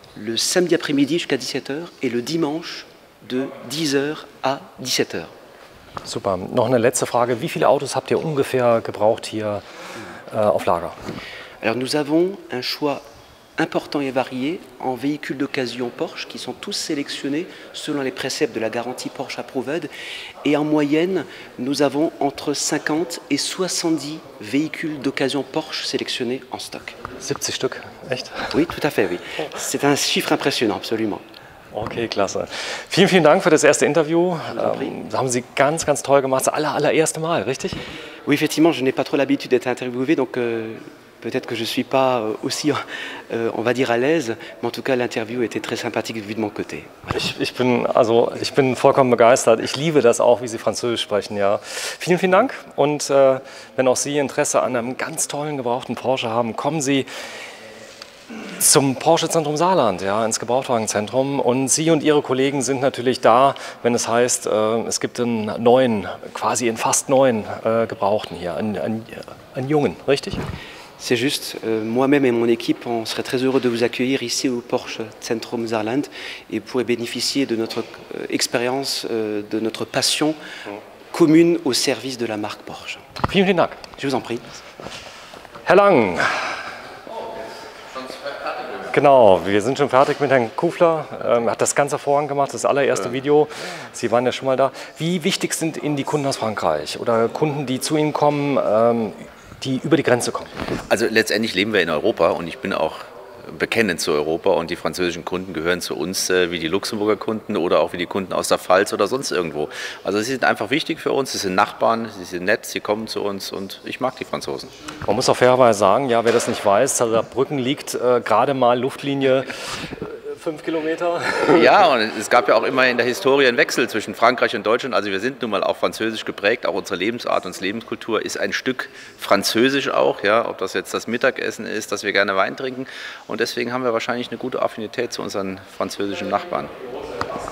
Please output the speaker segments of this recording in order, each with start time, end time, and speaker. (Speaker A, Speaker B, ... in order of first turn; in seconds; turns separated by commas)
Speaker A: 0.2-5.3, Speaker B: 6.0-9.6, Speaker B: 10.3-10.9, Speaker A: 11.6-13.0, Speaker A: 13.6-19.9, Speaker A: 20.4-27.0, Speaker B: 27.2-28.5, Speaker A: 28.5-31.2, Speaker B: 31.7-37.8, Speaker A: 34.5-35.0, Speaker A: 38.3-47.2, Speaker B: 47.1-57.1, Speaker B: 58.6-70.4, Speaker A: 71.0-80.4, Speaker A: 81.1-83.0, Speaker B: 83.2-83.8, Speaker A: 84.0-84.6, Speaker B: 85.7-86.5, Speaker B: 88.9-100.5, Speaker C: 100.9-114.7, Speaker B: 115.1-121.8, Speaker C: 121.4-136.7